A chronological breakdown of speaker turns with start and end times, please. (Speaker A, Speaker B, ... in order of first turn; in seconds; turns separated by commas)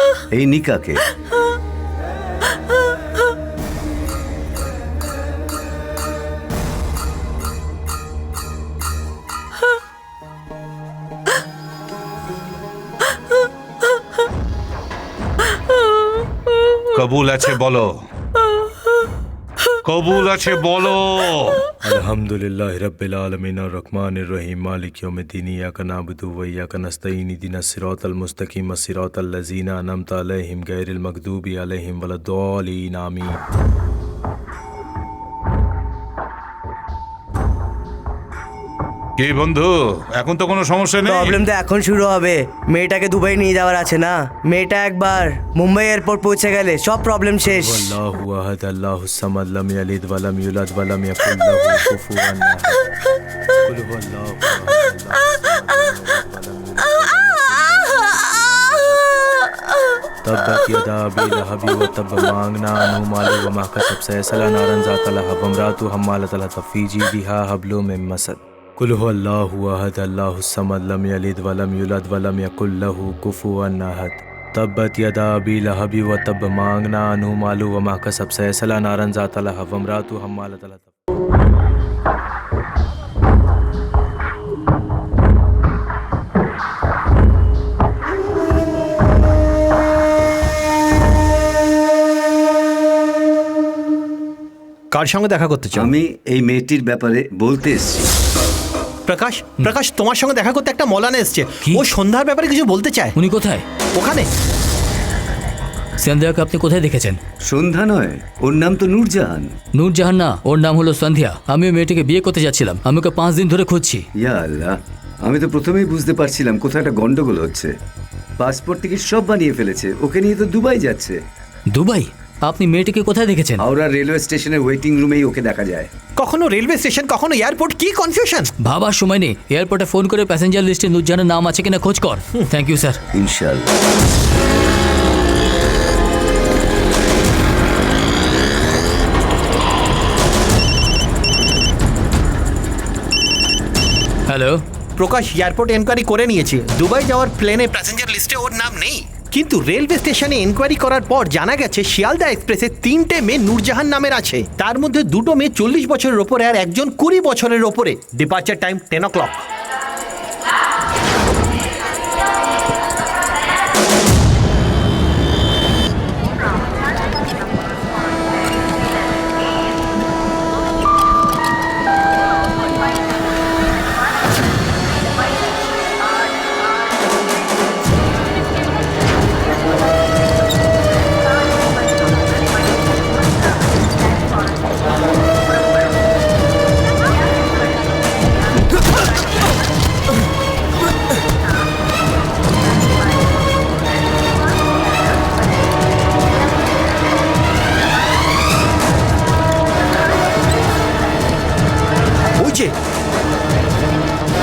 Speaker A: 0.3-1.0, Speaker B: 16.9-18.0, Speaker B: 19.8-21.7, Speaker C: 21.8-33.4, Speaker B: 39.2-41.5, Speaker D: 41.0-47.8, Speaker C: 47.5-52.8, Speaker C: 53.6-59.0, Speaker C: 60.2-80.9, Speaker E: 94.9-95.9, Speaker A: 95.8-98.1, Speaker E: 99.1-103.1, Speaker F: 103.2-103.6, Speaker E: 103.9-104.3, Speaker F: 106.0-107.2, Speaker A: 107.5-109.5, Speaker F: 109.7-114.0, Speaker A: 114.2-117.7, Speaker A: 118.4-121.2, Speaker F: 121.7-123.6, Speaker A: 123.6-125.9, Speaker E: 126.2-128.5, Speaker F: 128.6-133.0, Speaker A: 133.1-133.7, Speaker F: 144.3-144.6, Speaker E: 145.0-159.4, Speaker E: 202.4-202.7